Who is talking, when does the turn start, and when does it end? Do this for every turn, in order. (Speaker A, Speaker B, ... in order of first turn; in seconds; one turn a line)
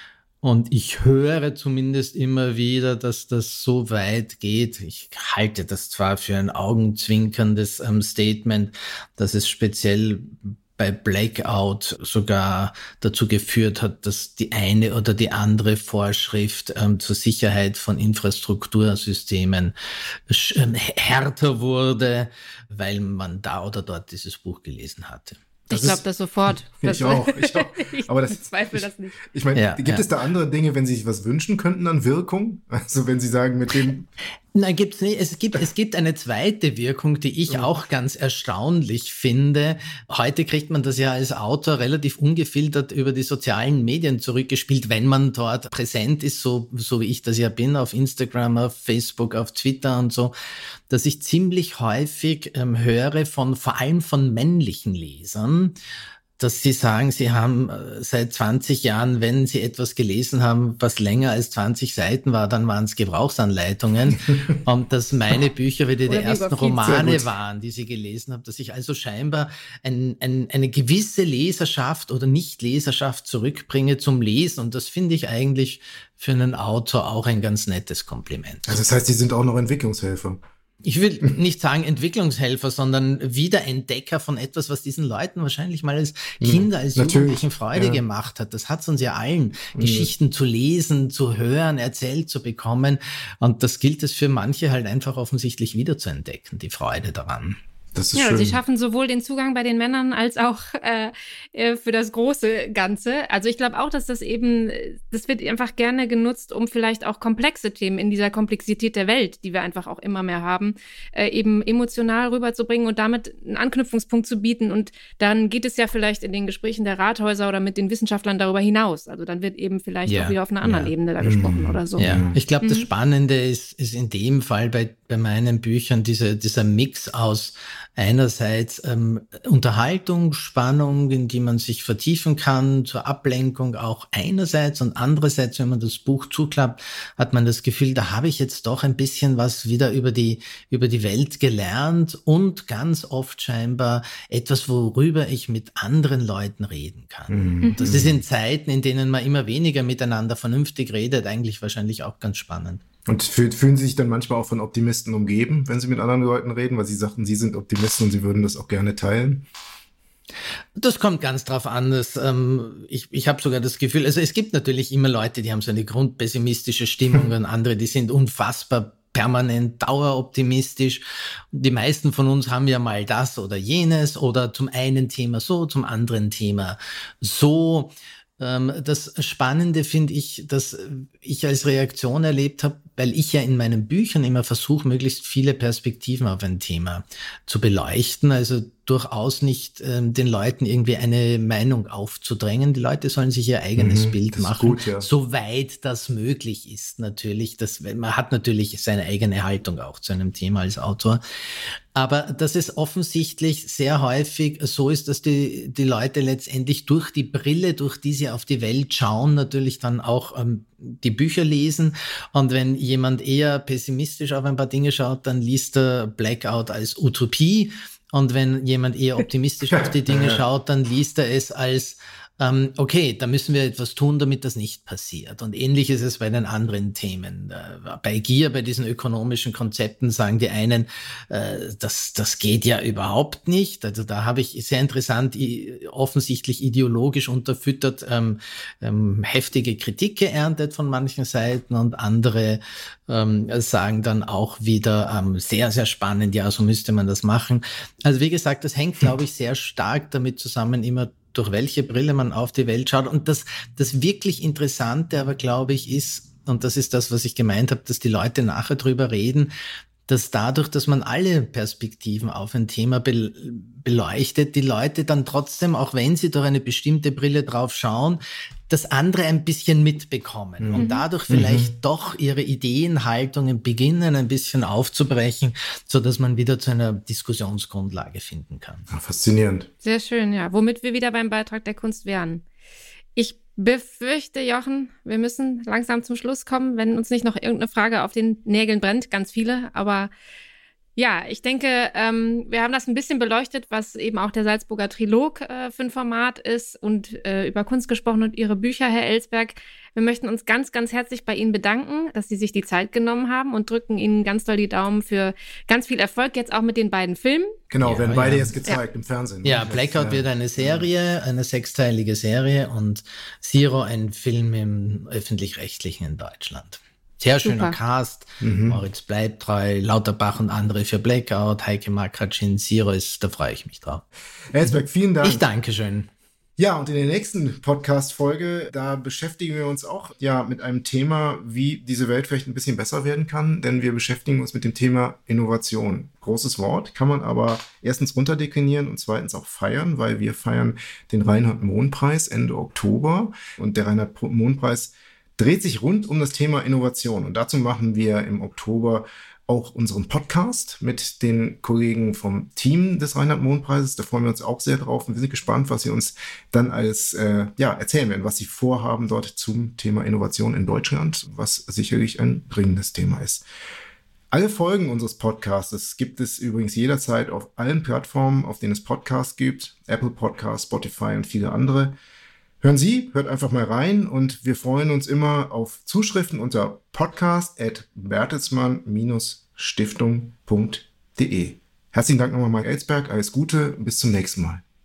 Speaker A: 0.4-26.0
Speaker B: 25.7-29.2
Speaker C: 25.7-26.0
Speaker C: 26.7-34.1
Speaker A: 29.5-30.1
Speaker A: 34.5-50.3
Speaker C: 37.5-37.7
Speaker A: 50.9-55.7
Speaker A: 56.4-78.8
Speaker B: 66.0-67.0
Speaker C: 66.8-67.3
Speaker C: 78.7-80.4
Speaker A: 80.8-97.6
Speaker C: 86.4-88.0
Speaker C: 89.7-90.1
Speaker C: 97.9-98.6
Speaker B: 98.1-122.9
Speaker A: 120.1-120.9
Speaker C: 121.2-122.4
Speaker A: 122.0-152.8
Speaker C: 147.3-148.2
Speaker B: 147.6-148.0
Speaker C: 153.1-159.4
Speaker A: 160.8-259.5
Speaker C: 193.8-195.1
Speaker C: 219.8-220.4
Speaker A: 260.1-278.9
Speaker C: 270.6-271.7
Speaker B: 270.8-271.0
Speaker C: 278.9-279.7
Speaker B: 279.8-282.4
Speaker B: 283.1-290.1
Speaker B: 290.9-307.6
Speaker C: 307.7-310.9
Speaker A: 307.8-308.5
Speaker A: 309.4-324.0
Speaker B: 317.4-317.8
Speaker C: 318.4-318.8
Speaker C: 324.5-325.4
Speaker A: 324.6-326.1
Speaker C: 326.6-363.4
Speaker C: 364.3-371.9
Speaker C: 372.6-384.6